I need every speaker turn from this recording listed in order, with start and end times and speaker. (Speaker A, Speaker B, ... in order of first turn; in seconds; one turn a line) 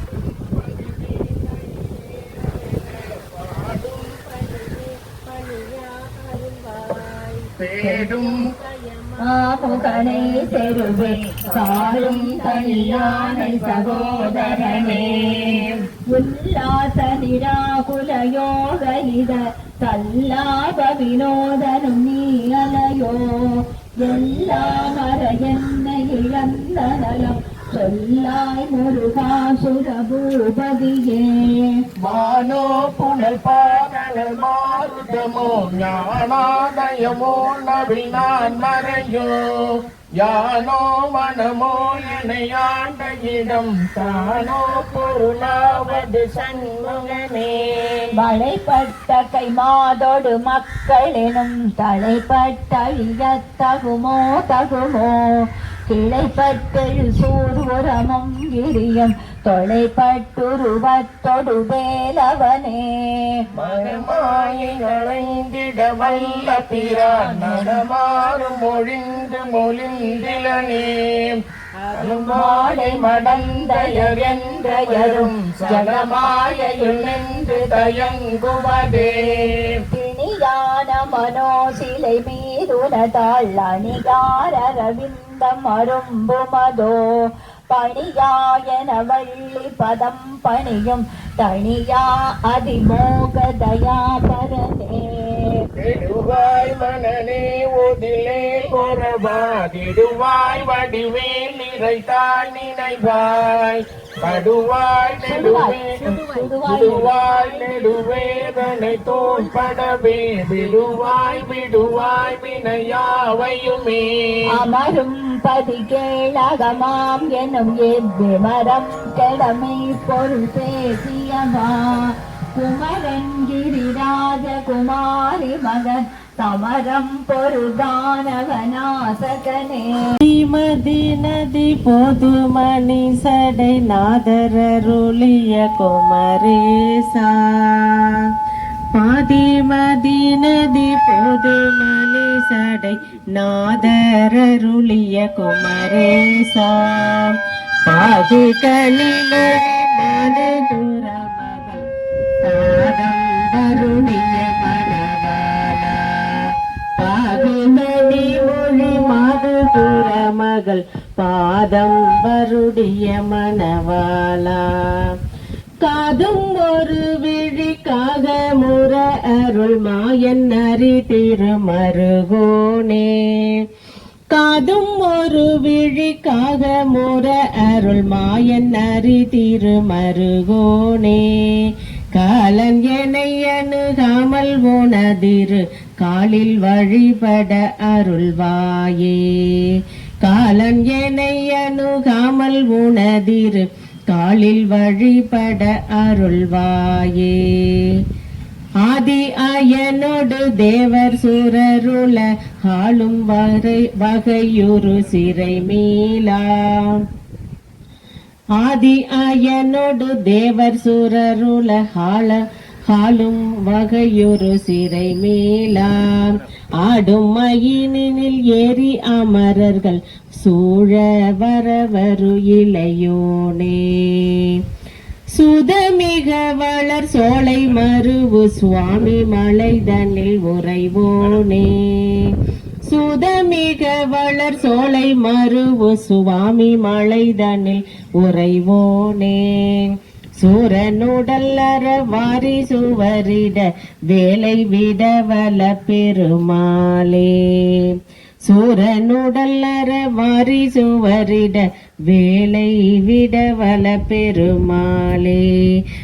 Speaker A: 0.4-10.8
Speaker B: 7.6-8.4
Speaker C: 9.2-31.8
Speaker B: 11.5-15.7
Speaker B: 32.0-47.6
Speaker A: 34.8-35.6
Speaker A: 44.0-47.6
Speaker C: 48.1-55.2
Speaker C: 55.9-63.4
Speaker B: 63.5-71.4
Speaker A: 63.6-63.9
Speaker C: 66.8-67.8
Speaker A: 71.8-72.4
Speaker B: 72.0-79.8
Speaker C: 72.2-78.1
Speaker C: 79.9-87.0
Speaker C: 87.7-95.6
Speaker B: 95.8-106.0
Speaker C: 105.2-107.1
Speaker A: 106.0-106.5
Speaker B: 106.6-114.5
Speaker A: 107.6-108.1
Speaker A: 109.2-109.5
Speaker A: 111.0-111.2
Speaker C: 114.5-129.9
Speaker A: 130.2-138.2
Speaker A: 138.9-151.8
Speaker A: 152.4-164.7
Speaker A: 165.8-173.6
Speaker A: 174.3-197.9
Speaker A: 198.8-206.9
Speaker A: 208.6-224.6
Speaker A: 225.3-232.3
Speaker A: 232.9-255.5